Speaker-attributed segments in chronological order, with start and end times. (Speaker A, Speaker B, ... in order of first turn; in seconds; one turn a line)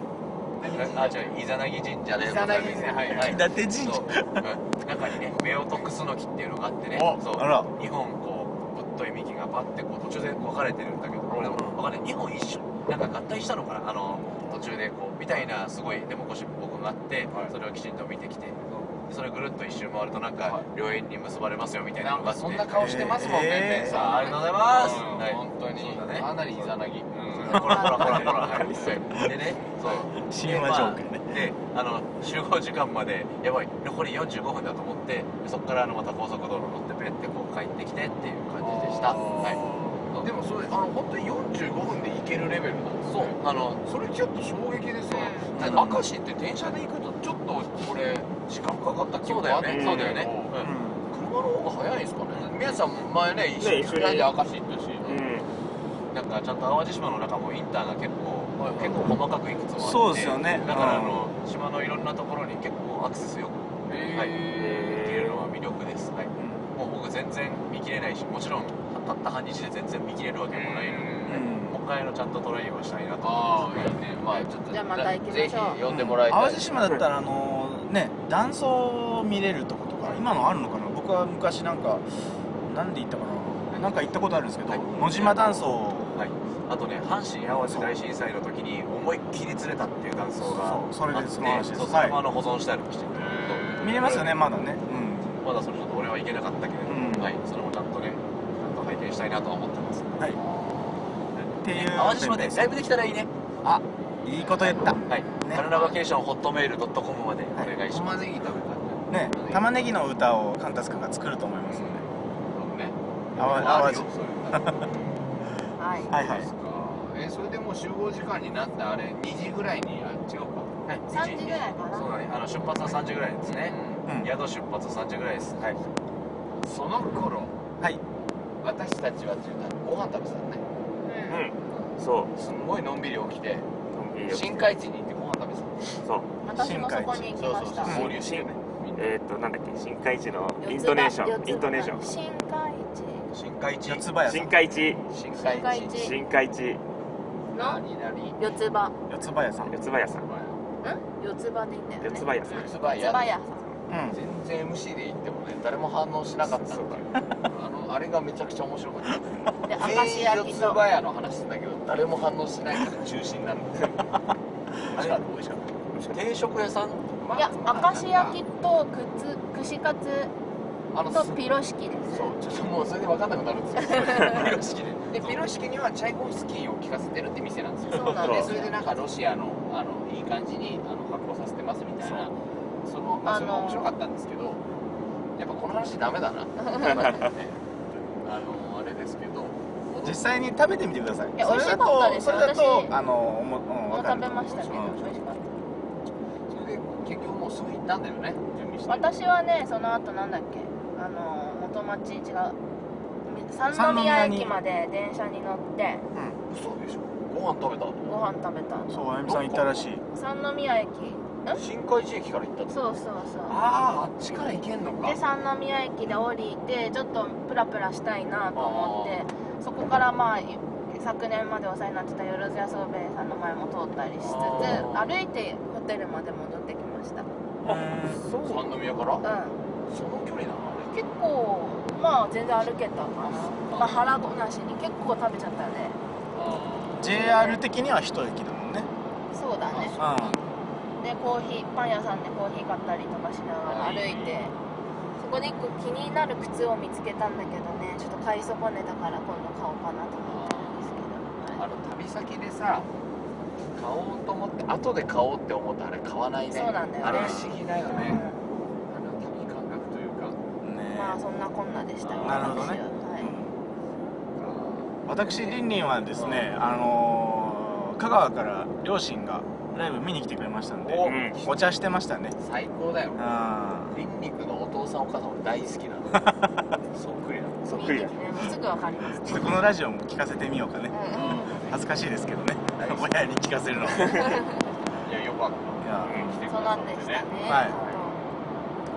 Speaker A: 0.6-1.3
Speaker B: 0.7-22.7
Speaker A: 2.1-3.4
Speaker C: 3.1-4.5
Speaker A: 6.9-7.2
Speaker C: 7.2-7.7
Speaker A: 11.3-11.8
Speaker A: 14.1-14.6
Speaker A: 20.4-20.7
Speaker A: 22.0-29.0
Speaker C: 22.7-24.0
Speaker B: 23.9-40.3
Speaker C: 27.5-28.3
Speaker A: 29.7-30.1
Speaker C: 30.2-31.5
Speaker A: 38.6-50.5
Speaker B: 43.1-43.8
Speaker D: 45.1-45.5
Speaker C: 45.5-46.0
Speaker B: 49.2-50.7
Speaker E: 49.7-50.3
Speaker C: 50.6-51.0
Speaker A: 51.1-55.2
Speaker B: 52.3-52.8
Speaker E: 53.6-54.3
Speaker E: 55.0-55.5
Speaker B: 56.1-73.9
Speaker A: 58.6-59.0
Speaker C: 59.8-61.2
Speaker A: 60.6-61.0
Speaker A: 63.9-65.0
Speaker E: 64.5-65.5
Speaker C: 66.4-66.6
Speaker A: 70.5-71.5
Speaker C: 71.3-71.8
Speaker A: 73.2-76.8
Speaker D: 74.7-75.8
Speaker C: 75.9-82.0
Speaker C: 82.7-86.2
Speaker B: 84.7-94.3
Speaker C: 87.4-87.9
Speaker C: 90.4-92.2
Speaker A: 93.1-94.3
Speaker C: 93.8-95.4
Speaker B: 95.4-100.2
Speaker C: 96.8-97.3
Speaker A: 100.3-101.2
Speaker B: 101.4-103.3
Speaker C: 101.6-102.7
Speaker C: 103.6-105.8
Speaker A: 104.4-105.1
Speaker B: 105.1-108.6
Speaker A: 107.9-109.8
Speaker C: 109.1-112.1
Speaker A: 111.7-115.2
Speaker C: 113.3-114.9
Speaker B: 113.6-113.9
Speaker D: 115.8-116.1
Speaker C: 116.1-116.5
Speaker A: 116.1-120.7
Speaker B: 120.8-125.7
Speaker D: 121.1-122.1
Speaker A: 122.8-124.0
Speaker C: 124.1-124.3
Speaker A: 126.6-127.6
Speaker A: 128.6-130.6
Speaker D: 131.0-131.4
Speaker E: 131.3-132.3
Speaker A: 131.8-133.7
Speaker E: 133.9-134.7
Speaker A: 134.3-136.0
Speaker E: 136.0-136.3
Speaker D: 136.4-138.0
Speaker C: 136.5-138.1
Speaker A: 137.4-139.1
Speaker E: 137.9-142.1
Speaker D: 140.6-143.3
Speaker B: 143.3-144.1
Speaker C: 143.8-144.6
Speaker E: 144.2-145.1
Speaker A: 145.1-146.0
Speaker D: 145.3-146.2
Speaker E: 145.9-146.8
Speaker D: 147.5-147.8
Speaker A: 147.5-148.4
Speaker D: 148.3-148.9
Speaker C: 149.1-149.7
Speaker E: 149.7-150.3
Speaker A: 150.2-150.6
Speaker D: 150.8-153.7
Speaker E: 152.0-152.7
Speaker A: 152.4-153.4
Speaker C: 153.9-154.2
Speaker A: 154.1-164.1
Speaker E: 156.7-157.0
Speaker D: 159.6-160.8
Speaker A: 164.8-166.1
Speaker B: 166.1-167.2
Speaker A: 167.2-168.4
Speaker D: 167.3-170.3
Speaker A: 170.9-171.4
Speaker D: 171.1-172.3
Speaker A: 172.1-184.6
Speaker D: 173.8-174.4
Speaker B: 174.2-175.5
Speaker D: 177.9-178.7
Speaker E: 178.2-178.6
Speaker D: 183.2-184.0
Speaker A: 185.4-187.6
Speaker D: 186.6-187.2
Speaker A: 188.2-190.2
Speaker C: 190.0-195.0
Speaker D: 191.3-192.9
Speaker D: 193.9-195.5
Speaker A: 196.5-199.1
Speaker D: 198.9-202.6
Speaker D: 203.2-206.0
Speaker C: 203.7-204.5
Speaker A: 206.5-208.2
Speaker D: 208.1-209.1
Speaker C: 208.9-210.0
Speaker A: 209.3-209.9
Speaker D: 210.1-211.6
Speaker A: 211.5-212.8
Speaker D: 212.7-213.6
Speaker A: 213.5-215.2
Speaker C: 213.8-214.1
Speaker D: 215.0-227.3
Speaker A: 218.5-219.2
Speaker A: 224.2-225.1
Speaker C: 227.6-228.2
Speaker A: 227.7-229.3
Speaker E: 227.7-228.8
Speaker D: 229.2-229.6
Speaker A: 229.9-230.9
Speaker D: 230.9-236.0
Speaker A: 233.2-234.2
Speaker A: 236.3-237.2
Speaker C: 237.0-238.9
Speaker D: 237.0-237.6
Speaker D: 239.3-240.0
Speaker A: 239.7-240.4
Speaker C: 240.0-240.4
Speaker D: 241.0-244.5
Speaker A: 243.6-244.4
Speaker D: 245.2-251.6
Speaker A: 250.2-250.8
Speaker A: 251.5-252.9
Speaker A: 253.7-258.3
Speaker D: 256.5-258.4
Speaker C: 257.0-257.4
Speaker A: 258.9-260.4
Speaker C: 260.6-261.2
Speaker D: 260.9-263.3
Speaker A: 262.0-262.7
Speaker C: 262.2-263.6
Speaker A: 264.3-265.6
Speaker C: 265.1-272.3
Speaker A: 266.1-266.5
Speaker A: 270.8-271.7
Speaker E: 271.0-271.4
Speaker A: 272.4-276.3
Speaker C: 273.1-274.0
Speaker C: 276.1-276.6
Speaker A: 276.9-278.1
Speaker D: 277.7-279.7
Speaker E: 277.7-278.1
Speaker C: 279.2-284.4
Speaker D: 280.9-281.7
Speaker A: 281.1-281.7
Speaker A: 282.8-283.3
Speaker D: 284.0-284.6
Speaker A: 285.0-288.0
Speaker C: 285.8-286.4
Speaker E: 286.0-286.3
Speaker D: 286.5-288.2
Speaker C: 287.4-287.8